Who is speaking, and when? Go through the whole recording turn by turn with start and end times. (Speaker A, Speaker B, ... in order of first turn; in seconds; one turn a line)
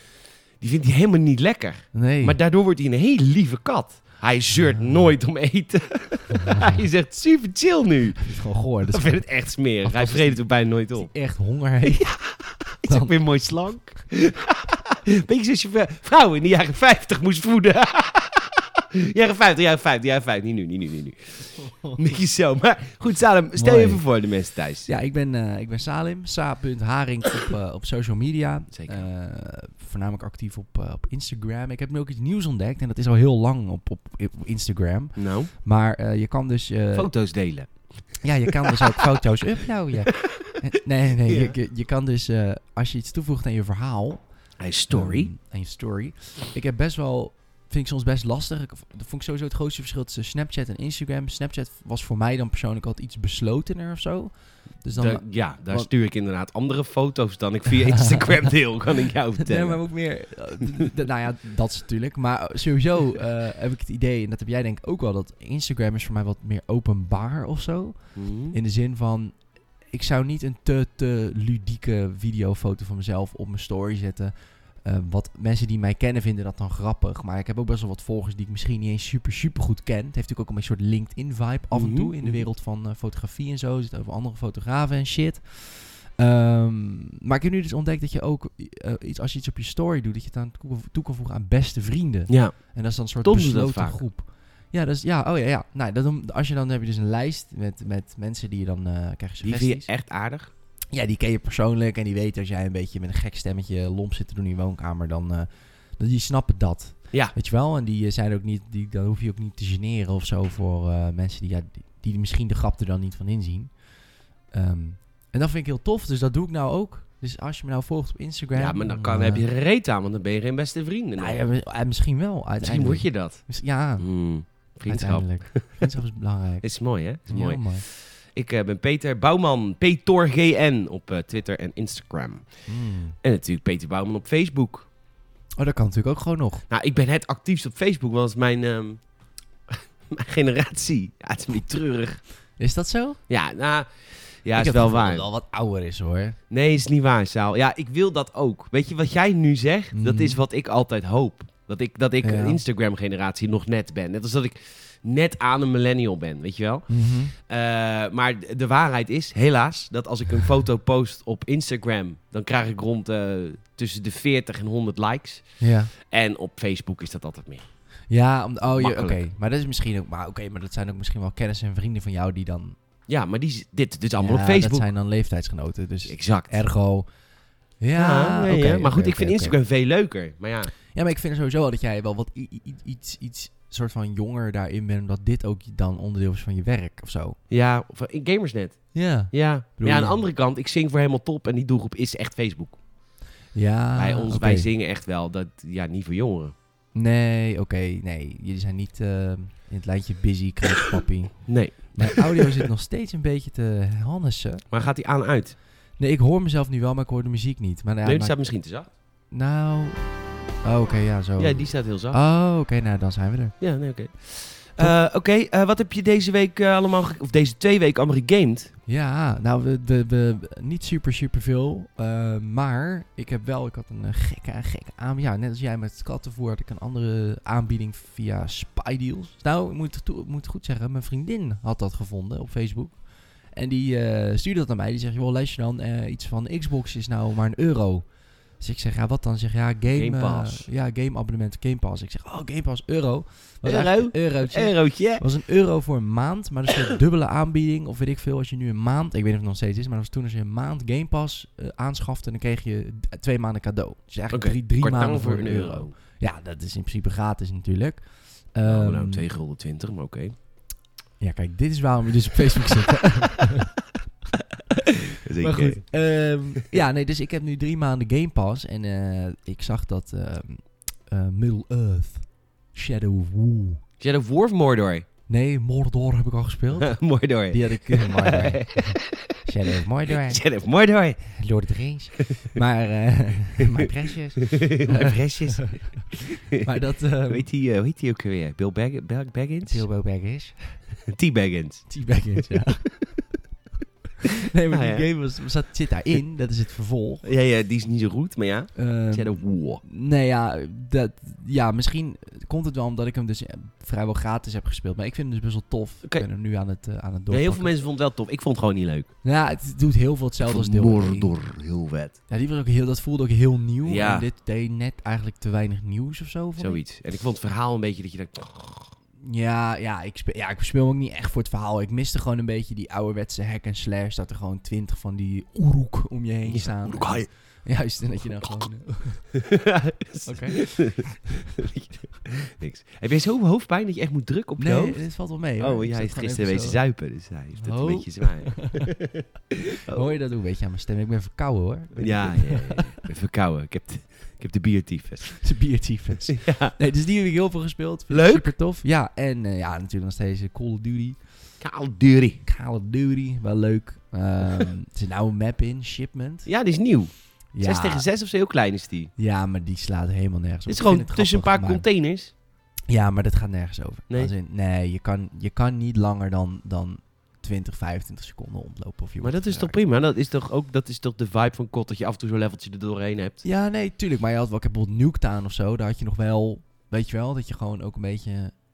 Speaker A: 0.6-11.1
Speaker B: 1.9-2.4
Speaker B: 4.5-5.1
Speaker B: 6.5-6.9
Speaker B: 8.2-9.2
Speaker B: 9.8-12.1
Speaker A: 11.8-24.9
Speaker B: 12.9-13.2
Speaker B: 23.6-24.1
Speaker B: 24.9-37.1
Speaker A: 28.7-29.1
Speaker A: 35.1-35.5
Speaker A: 36.9-39.0
Speaker B: 38.2-55.9
Speaker A: 41.2-41.5
Speaker A: 44.6-45.3
Speaker A: 54.9-59.9
Speaker B: 58.0-58.5
Speaker B: 59.4-99.9
Speaker A: 68.2-68.6
Speaker A: 81.7-82.5
Speaker A: 92.3-94.0
Speaker A: 99.4-100.5
Speaker B: 100.9-113.8
Speaker B: 114.5-119.5
Speaker A: 118.5-121.4
Speaker B: 121.2-124.2
Speaker A: 122.6-126.0
Speaker B: 124.9-127.8
Speaker A: 126.6-134.9
Speaker B: 132.7-133.2
Speaker B: 135.6-136.7
Speaker A: 136.7-139.0
Speaker A: 139.7-142.2
Speaker B: 142.6-143.2
Speaker A: 143.3-145.3
Speaker B: 144.6-146.4
Speaker A: 146.5-167.7
Speaker B: 149.9-150.4
Speaker B: 152.2-152.6
Speaker B: 156.9-157.3
Speaker B: 165.6-165.9
Speaker B: 168.1-172.8
Speaker A: 168.8-169.2
Speaker A: 173.1-174.9
Speaker B: 174.2-177.1
Speaker A: 176.1-176.6
Speaker B: 177.8-179.6
Speaker A: 178.0-180.7
Speaker B: 180.9-187.4
Speaker A: 187.5-192.8
Speaker B: 188.9-190.2
Speaker B: 193.5-194.7
Speaker A: 194.0-196.5
Speaker B: 196.9-204.7
Speaker A: 201.5-202.4
Speaker A: 204.7-205.6
Speaker B: 206.0-208.4
Speaker A: 208.0-208.9
Speaker B: 209.3-213.6
Speaker A: 211.4-212.2
Speaker A: 213.6-218.7
Speaker B: 218.9-259.2
Speaker A: 239.9-240.7
Speaker A: 243.6-245.3
Speaker A: 254.3-255.9
Speaker A: 258.6-260.4
Speaker B: 261.2-263.7
Speaker A: 265.1-265.9
Speaker B: 265.4-273.8
Speaker A: 274.0-275.1
Speaker B: 275.3-280.4
Speaker A: 276.8-281.4
Speaker B: 281.3-286.0
Speaker A: 284.4-289.9
Speaker B: 286.6-287.4
Speaker B: 289.7-290.8
Speaker A: 291.1-291.9
Speaker B: 291.9-292.9
Speaker B: 294.4-297.2
Speaker A: 294.7-295.1
Speaker A: 297.2-299.8
Speaker B: 298.8-307.7
Speaker A: 307.3-309.1
Speaker B: 309.2-311.4
Speaker A: 310.5-312.2
Speaker B: 312.3-316.8
Speaker A: 313.8-314.3
Speaker A: 316.6-318.9
Speaker B: 319.2-329.4
Speaker A: 326.5-327.3
Speaker A: 329.4-335.1
Speaker B: 330.2-331.1
Speaker B: 334.6-336.8
Speaker A: 335.6-340.1
Speaker B: 337.6-338.9
Speaker B: 339.9-343.0
Speaker A: 342.0-345.5
Speaker B: 345.4-351.2
Speaker A: 346.3-346.8
Speaker A: 348.1-348.5
Speaker A: 351.6-352.4
Speaker B: 352.4-356.5
Speaker A: 356.5-359.1
Speaker B: 357.5-358.1
Speaker B: 359.2-361.9
Speaker A: 360.7-362.3
Speaker B: 362.9-369.8
Speaker A: 369.2-373.4
Speaker B: 373.4-378.6